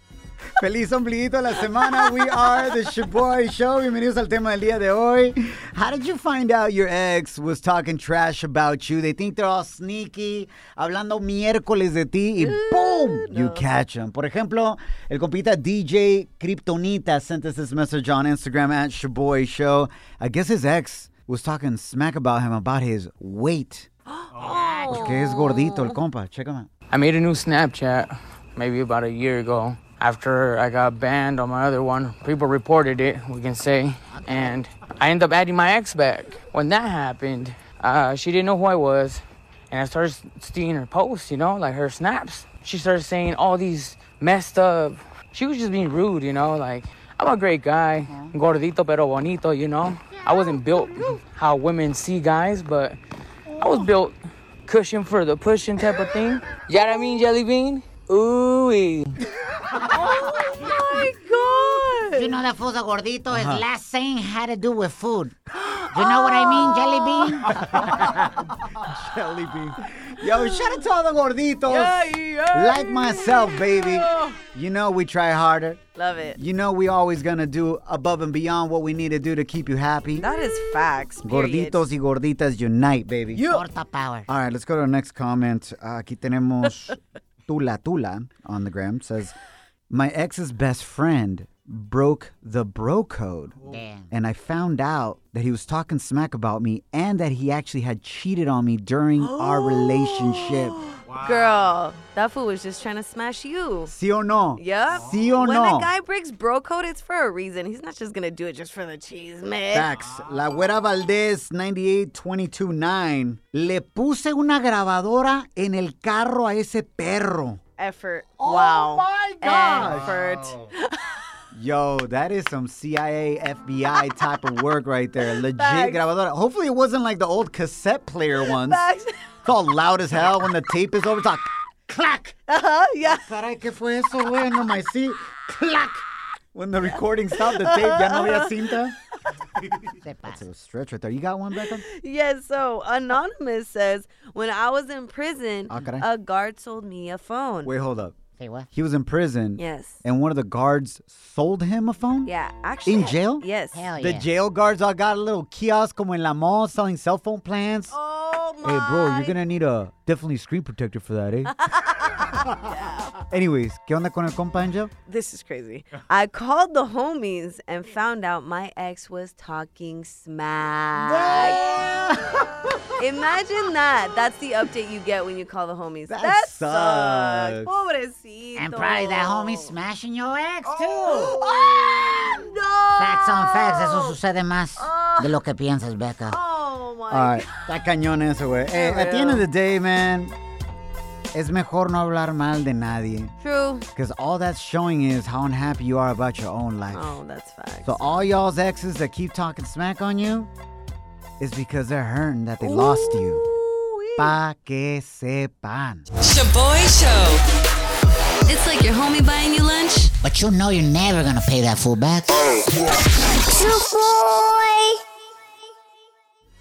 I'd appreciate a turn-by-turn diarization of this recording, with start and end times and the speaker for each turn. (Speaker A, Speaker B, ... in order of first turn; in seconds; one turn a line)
Speaker A: 0.6-23.9
Speaker B: 1.8-2.7
Speaker B: 12.4-13.6
Speaker B: 24.1-26.0
Speaker C: 24.4-25.1
Speaker A: 24.9-26.7
Speaker D: 26.9-53.0
Speaker C: 34.1-34.6
Speaker A: 48.1-48.4
Speaker D: 53.6-59.1
Speaker B: 59.9-62.4
Speaker C: 62.1-65.4
Speaker A: 63.3-63.6
Speaker B: 65.6-67.9
Speaker C: 65.9-67.7
Speaker A: 67.6-75.8
Speaker B: 70.2-70.8
Speaker B: 71.7-74.4
Speaker B: 76.0-76.4
Speaker A: 76.4-80.3
Speaker B: 80.2-81.8
Speaker A: 81.2-83.7
Speaker C: 83.3-84.3
Speaker A: 84.3-89.3
Speaker A: 89.9-93.6
Speaker C: 93.6-94.1
Speaker A: 94.1-100.8
Speaker B: 99.2-103.9
Speaker A: 103.9-105.9
Speaker B: 104.6-109.9
Speaker A: 109.7-117.6
Speaker B: 117.8-121.2
Speaker A: 118.4-120.2
Speaker A: 121.5-128.8
Speaker B: 123.9-124.3
Speaker B: 125.2-126.0
Speaker B: 128.4-129.2
Speaker A: 129.4-132.3
Speaker B: 132.5-133.3
Speaker A: 133.1-136.0
Speaker A: 136.6-139.0
Speaker B: 136.9-139.3
Speaker C: 139.9-140.4
Speaker A: 140.3-141.8
Speaker B: 141.8-147.7
Speaker A: 145.7-146.1
Speaker A: 147.6-148.2
Speaker C: 148.4-148.7
Speaker A: 148.7-152.3
Speaker B: 149.6-150.0
Speaker B: 152.3-153.9
Speaker A: 152.9-153.4
Speaker C: 153.7-154.3
Speaker A: 154.0-157.9
Speaker B: 157.9-159.4
Speaker A: 158.6-161.6
Speaker B: 161.5-163.2
Speaker A: 162.4-162.7
Speaker A: 163.3-164.9
Speaker B: 165.1-172.4
Speaker A: 171.0-172.9
Speaker B: 173.0-179.7
Speaker A: 176.1-177.7
Speaker C: 178.6-181.4
Speaker B: 181.0-184.2
Speaker C: 183.0-186.4
Speaker B: 184.8-185.4
Speaker B: 186.3-187.8
Speaker A: 187.1-190.4
Speaker B: 188.7-189.5
Speaker A: 191.3-193.3
Speaker B: 193.4-193.9
Speaker A: 193.9-197.2
Speaker B: 196.9-198.1
Speaker A: 197.8-200.5
Speaker A: 201.4-203.4
Speaker B: 202.6-204.3
Speaker A: 204.2-206.1
Speaker E: 206.2-207.4
Speaker B: 208.5-210.1
Speaker C: 210.2-212.6
Speaker E: 213.4-215.0